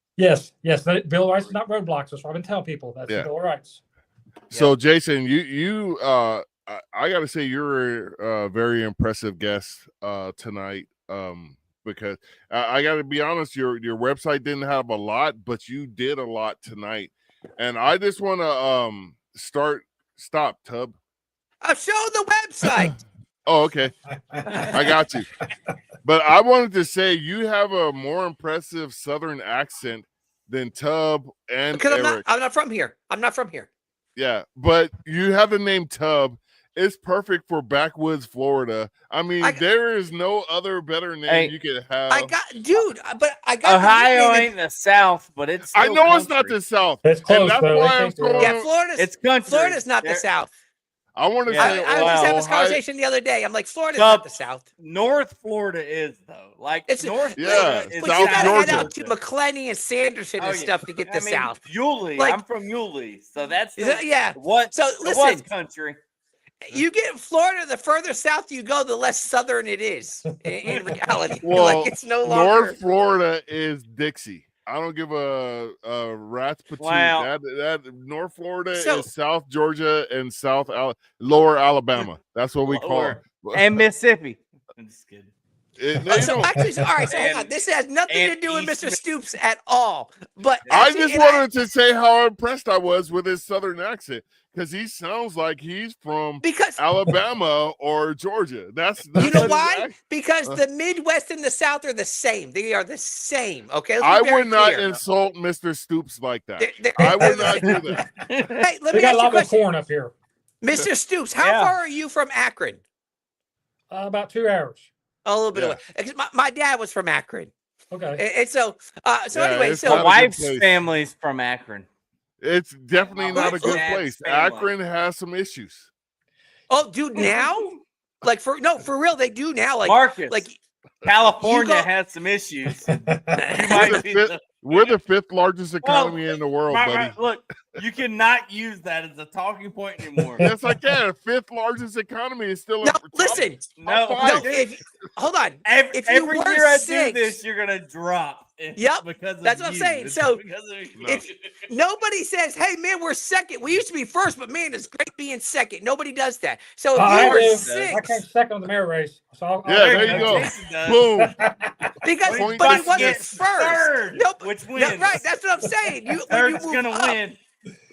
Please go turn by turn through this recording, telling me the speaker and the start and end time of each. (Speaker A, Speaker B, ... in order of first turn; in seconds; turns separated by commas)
Speaker A: 0.2-3.8, Speaker B: 4.5-20.9, Speaker C: 21.6-23.0, Speaker B: 23.5-23.9, Speaker A: 24.4-24.7, Speaker B: 24.5-25.3, Speaker B: 26.0-32.2, Speaker C: 31.7-33.7, Speaker B: 34.2-42.3, Speaker D: 41.3-41.5, Speaker C: 42.1-44.5, Speaker D: 43.6-46.6, Speaker B: 45.7-48.7, Speaker A: 47.0-48.6, Speaker C: 48.4-50.5, Speaker D: 49.0-50.2, Speaker B: 51.2-52.8, Speaker D: 51.5-52.4, Speaker C: 51.6-54.6, Speaker D: 54.0-59.1, Speaker C: 56.9-61.6, Speaker B: 57.4-58.9, Speaker D: 60.4-66.0, Speaker C: 63.8-65.5, Speaker C: 66.7-72.8, Speaker B: 71.4-83.8, Speaker D: 76.8-77.3, Speaker C: 78.7-79.1, Speaker D: 82.7-85.3, Speaker B: 85.8-86.5, Speaker C: 86.0-91.5, Speaker D: 87.1-87.5, Speaker D: 88.1-89.0, Speaker B: 90.7-100.6, Speaker C: 96.4-96.8, Speaker C: 99.2-105.0, Speaker D: 99.2-99.5, Speaker B: 104.0-108.0, Speaker C: 106.6-107.8, Speaker A: 107.0-108.1, Speaker D: 107.6-108.7, Speaker C: 108.6-109.5, Speaker A: 108.9-110.1, Speaker C: 110.6-112.8, Speaker D: 111.4-111.8, Speaker A: 113.9-114.9, Speaker C: 115.2-117.5, Speaker B: 115.5-115.8, Speaker A: 117.9-118.2, Speaker C: 118.2-120.1, Speaker B: 119.3-120.8, Speaker D: 119.8-121.9, Speaker B: 122.4-125.9, Speaker D: 123.0-124.7, Speaker C: 123.3-123.8, Speaker C: 126.7-130.6, Speaker D: 127.2-127.5, Speaker D: 129.8-130.4, Speaker D: 131.0-133.0, Speaker C: 131.4-131.9, Speaker A: 132.9-133.5, Speaker C: 133.4-133.8, Speaker D: 133.5-134.4, Speaker B: 133.7-137.2, Speaker D: 135.8-140.5, Speaker A: 140.4-140.7, Speaker B: 140.4-144.7, Speaker C: 142.8-143.6, Speaker D: 143.8-144.7, Speaker C: 144.2-147.3, Speaker D: 145.7-151.3, Speaker C: 148.8-150.4, Speaker B: 151.0-151.3, Speaker C: 151.1-158.2, Speaker A: 156.9-160.5, Speaker D: 157.0-158.0, Speaker B: 159.7-161.4, Speaker D: 159.8-161.0, Speaker A: 161.2-161.9, Speaker C: 162.0-167.2, Speaker D: 162.2-165.2, Speaker B: 162.3-163.4, Speaker D: 166.3-167.4